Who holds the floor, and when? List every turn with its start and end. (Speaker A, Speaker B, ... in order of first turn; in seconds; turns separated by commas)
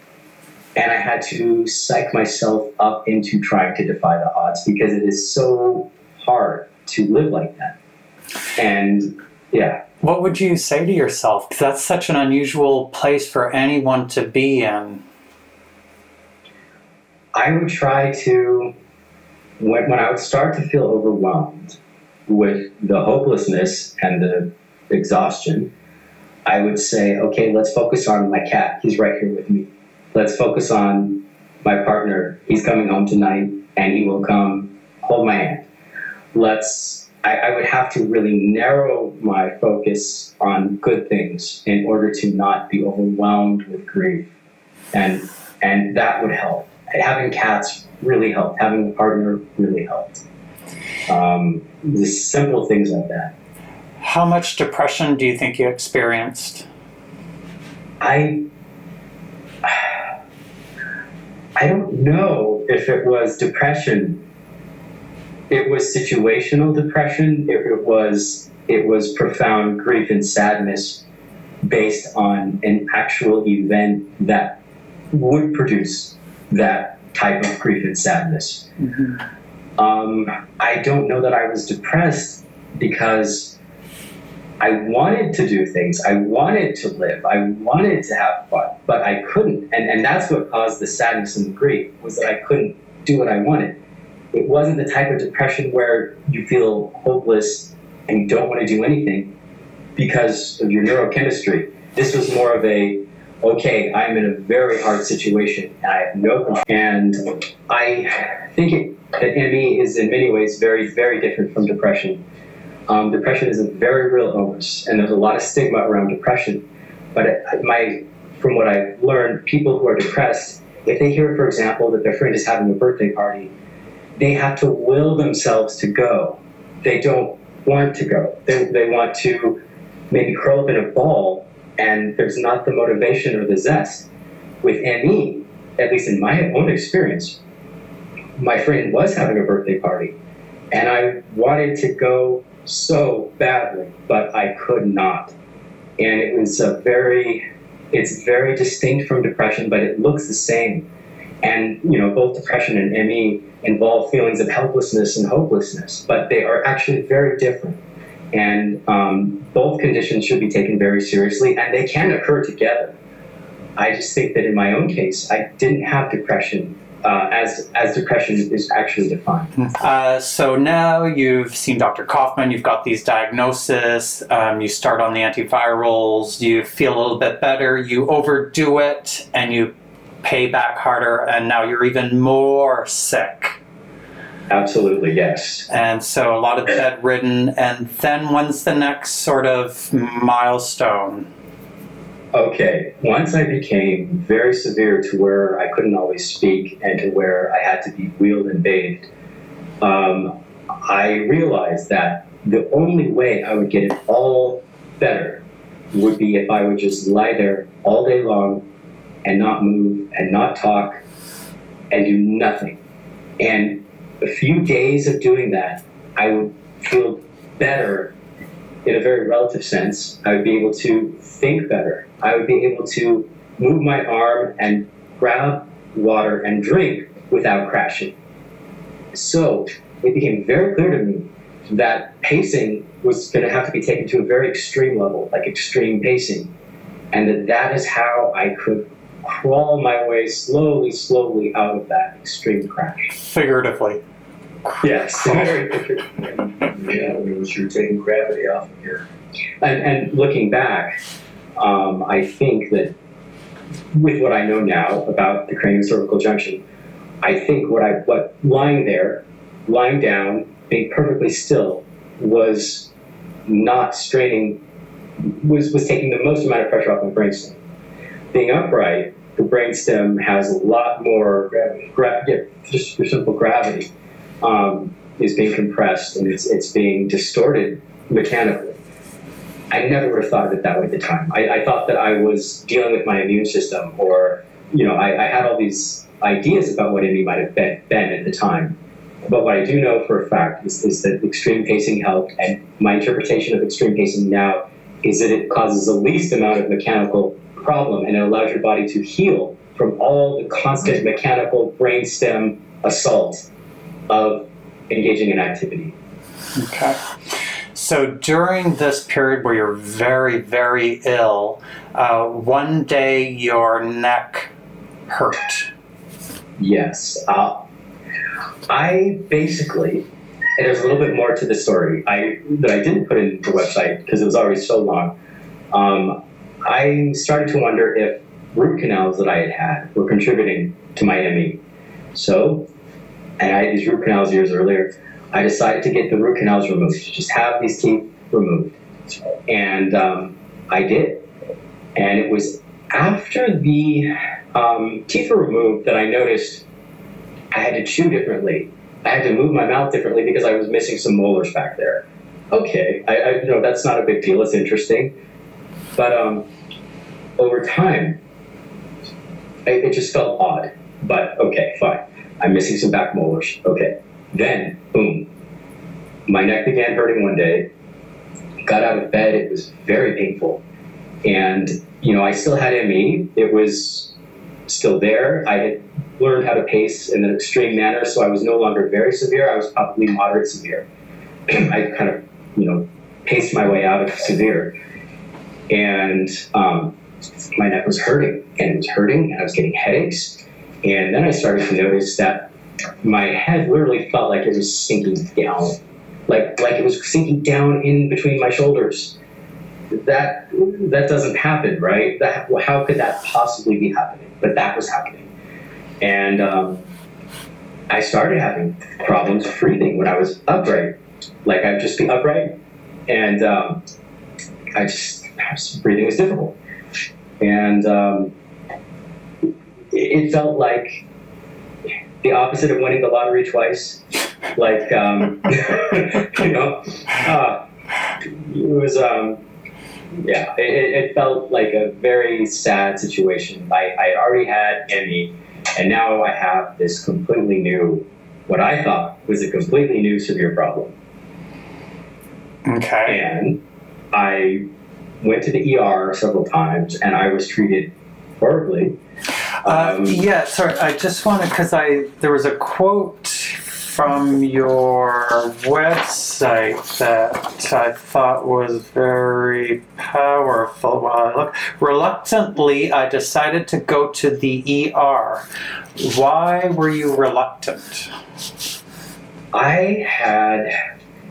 Speaker A: 0.8-7.8, Speaker A: 8.6-9.8, Speaker B: 10.0-15.0, Speaker A: 17.4-18.7, Speaker A: 19.6-25.7, Speaker A: 26.5-35.7, Speaker A: 36.3-44.3, Speaker A: 44.9-50.2, Speaker A: 51.1-53.3, Speaker B: 54.0-56.7, Speaker A: 58.0-58.5, Speaker A: 59.6-59.9, Speaker A: 61.6-64.2, Speaker A: 65.5-71.0, Speaker A: 71.6-74.6, Speaker A: 75.1-78.7, Speaker A: 79.8-83.6, Speaker A: 84.6-93.8, Speaker A: 94.3-99.3, Speaker A: 100.0-112.2, Speaker A: 112.9-116.6, Speaker A: 117.2-123.5, Speaker A: 124.2-134.1, Speaker A: 134.6-137.4, Speaker A: 138.4-140.2, Speaker A: 140.7-145.3, Speaker A: 146.0-150.9, Speaker A: 151.4-157.8, Speaker A: 158.3-163.0, Speaker A: 163.8-169.5, Speaker B: 169.6-179.7, Speaker B: 180.2-183.6, Speaker A: 184.5-185.7, Speaker B: 185.7-191.3, Speaker A: 192.3-199.1, Speaker A: 199.8-200.3, Speaker A: 200.8-208.7, Speaker A: 209.2-211.0, Speaker A: 211.9-212.8, Speaker A: 213.4-218.1, Speaker A: 218.8-228.1, Speaker A: 229.1-236.5, Speaker A: 237.1-243.2, Speaker B: 243.2-244.0, Speaker A: 244.8-246.1, Speaker B: 245.2-245.5, Speaker C: 246.6-249.1, Speaker A: 249.6-251.0, Speaker A: 251.6-252.9, Speaker A: 253.9-256.6, Speaker A: 257.2-262.9, Speaker A: 263.5-264.6, Speaker A: 265.2-267.6, Speaker A: 268.3-273.9, Speaker A: 274.4-278.8, Speaker A: 279.7-303.5, Speaker A: 304.1-306.0, Speaker B: 306.6-314.5, Speaker B: 315.1-315.7, Speaker A: 316.6-317.7, Speaker A: 318.7-320.0, Speaker A: 320.6-325.1, Speaker A: 325.7-331.6, Speaker A: 332.1-332.7, Speaker A: 333.4-338.8, Speaker A: 339.5-341.3, Speaker A: 341.9-346.6, Speaker A: 347.5-355.1, Speaker A: 356.0-356.5, Speaker A: 357.4-358.2, Speaker A: 359.7-365.3, Speaker A: 366.3-367.7, Speaker A: 368.6-370.6, Speaker A: 371.2-374.1, Speaker A: 374.7-380.9, Speaker A: 381.5-384.7, Speaker A: 385.7-386.9, Speaker A: 387.6-392.5, Speaker A: 393.0-399.2, Speaker A: 399.9-405.3, Speaker A: 406.0-406.9, Speaker A: 407.9-412.6, Speaker A: 413.1-413.8, Speaker A: 414.7-416.6, Speaker A: 417.4-418.3, Speaker A: 419.9-421.0, Speaker A: 422.2-424.0, Speaker A: 424.6-427.6, Speaker A: 428.2-429.4, Speaker A: 430.2-440.9, Speaker B: 442.7-443.2, Speaker A: 443.1-443.6, Speaker A: 444.1-444.7, Speaker A: 445.2-449.0, Speaker A: 449.6-450.2, Speaker B: 449.6-465.4, Speaker B: 466.0-468.1, Speaker A: 469.5-470.7